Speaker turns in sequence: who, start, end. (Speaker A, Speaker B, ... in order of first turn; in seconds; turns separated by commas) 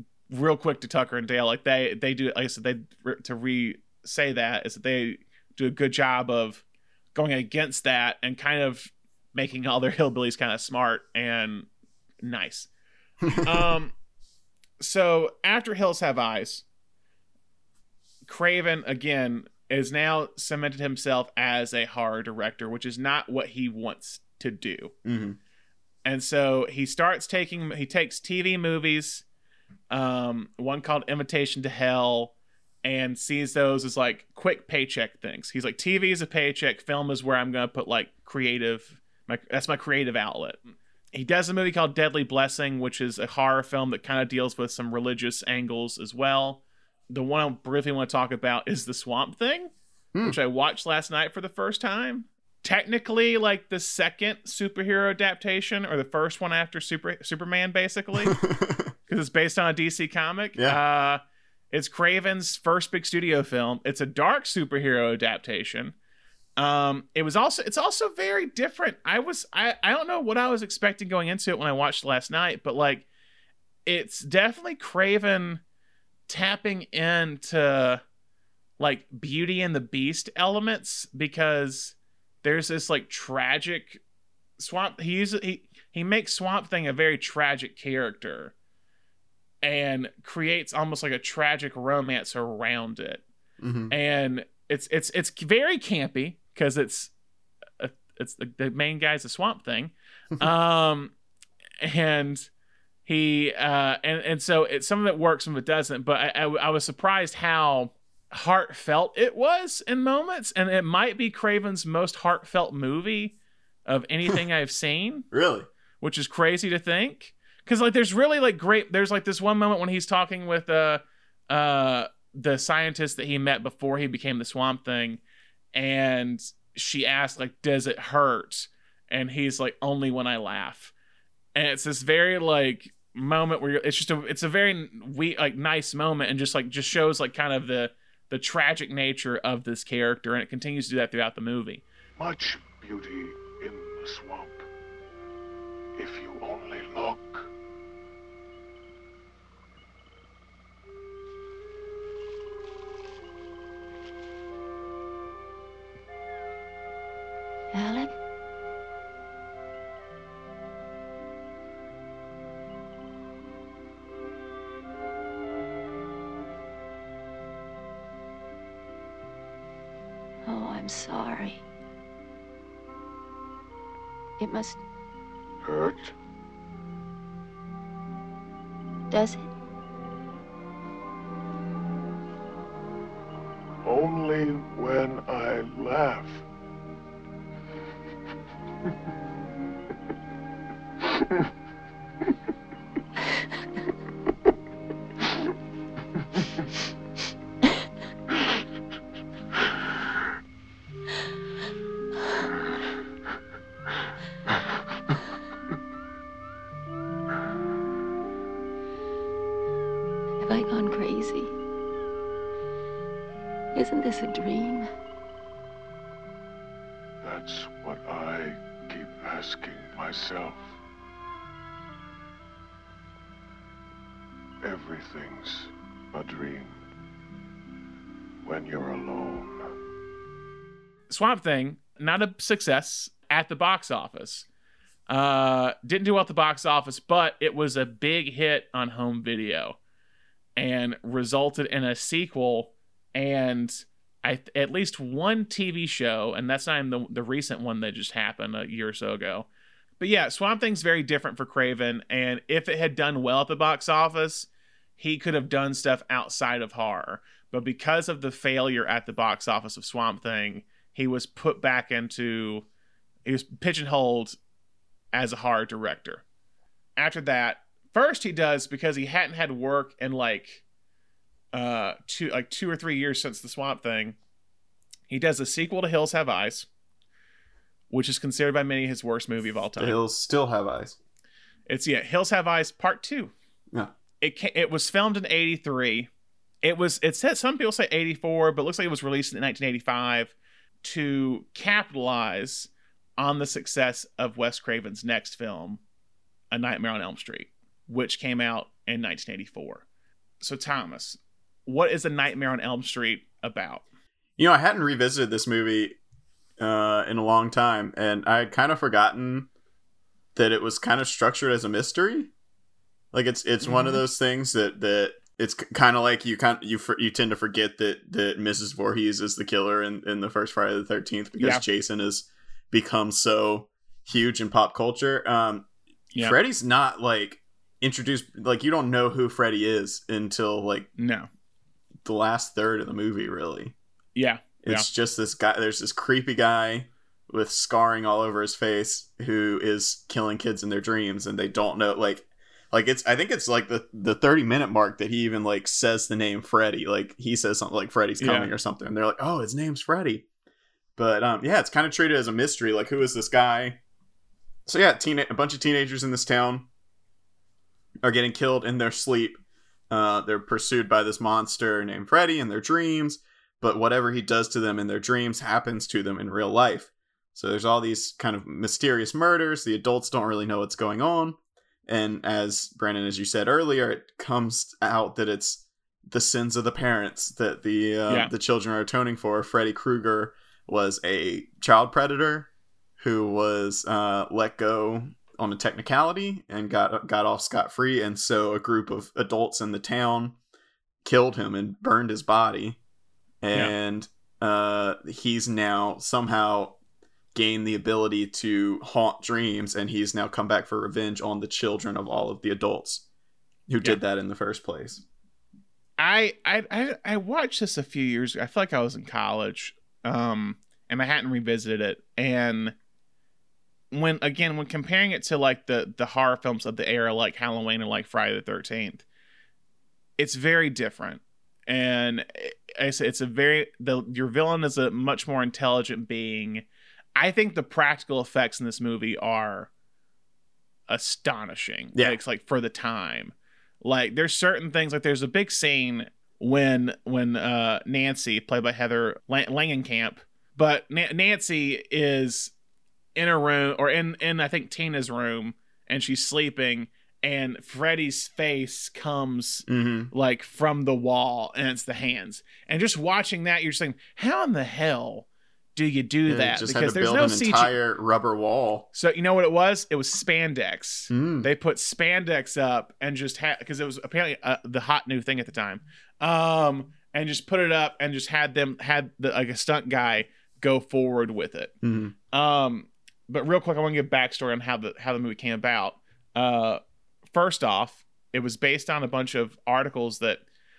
Speaker A: 0.3-6.6, Speaker A: 7.1-11.7, Speaker A: 12.2-12.7, Speaker B: 13.2-13.6, Speaker A: 13.4-13.9, Speaker A: 14.8-16.6, Speaker A: 18.2-24.9, Speaker B: 25.0-25.4, Speaker A: 26.0-29.2, Speaker A: 29.9-32.3, Speaker A: 32.8-40.6, Speaker A: 41.1-49.7, Speaker A: 50.2-58.4, Speaker B: 58.2-58.9, Speaker A: 59.1-65.9, Speaker A: 66.6-73.0, Speaker A: 73.8-75.6, Speaker A: 76.3-78.0, Speaker A: 78.8-84.0, Speaker A: 84.6-88.5, Speaker A: 89.6-93.2, Speaker B: 93.6-93.9, Speaker A: 93.9-97.1, Speaker A: 97.8-101.1, Speaker A: 101.8-102.5, Speaker A: 103.0-113.3, Speaker A: 113.8-115.3, Speaker B: 115.3-115.7, Speaker A: 116.0-125.2, Speaker A: 125.7-130.9, Speaker A: 131.5-141.8, Speaker C: 142.2-144.7, Speaker C: 145.9-147.5, Speaker D: 157.7-158.1, Speaker D: 170.4-171.6, Speaker D: 174.4-174.8, Speaker C: 175.6-176.1, Speaker D: 179.1-179.5, Speaker C: 183.8-186.4, Speaker D: 210.4-211.5, Speaker D: 213.7-214.9, Speaker C: 217.2-220.8, Speaker C: 224.6-226.8, Speaker C: 228.4-229.7, Speaker A: 231.1-234.5, Speaker A: 235.1-239.8, Speaker A: 240.6-249.5, Speaker A: 250.0-262.6, Speaker A: 263.2-264.4, Speaker A: 265.1-266.2, Speaker A: 267.0-270.6, Speaker A: 271.5-274.1, Speaker A: 275.1-276.7, Speaker A: 277.9-280.0, Speaker B: 279.8-280.9, Speaker A: 281.7-283.3, Speaker A: 284.2-286.1, Speaker A: 286.6-295.8, Speaker A: 296.5-299.8, Speaker A: 300.4-303.8, Speaker B: 304.4-306.0, Speaker B: 306.6-309.5, Speaker B: 310.3-312.3, Speaker B: 313.1-330.9, Speaker A: 313.6-314.0, Speaker A: 321.4-321.6, Speaker A: 331.0-331.3, Speaker B: 332.0-333.7, Speaker A: 334.1-334.9, Speaker B: 334.6-350.2, Speaker A: 348.2-348.5, Speaker B: 351.0-353.8, Speaker B: 354.6-356.7, Speaker B: 358.0-390.4, Speaker B: 391.0-392.8, Speaker B: 393.4-396.8, Speaker B: 397.3-403.0, Speaker B: 403.7-405.0, Speaker A: 406.0-412.7, Speaker A: 413.9-419.0, Speaker A: 420.2-426.6, Speaker A: 427.1-429.7, Speaker A: 430.9-442.5, Speaker A: 443.1-457.8, Speaker B: 449.7-450.1, Speaker B: 456.3-458.9, Speaker A: 458.9-471.7, Speaker B: 461.1-461.5, Speaker B: 471.8-472.1, Speaker A: 472.3-476.8, Speaker A: 477.3-480.4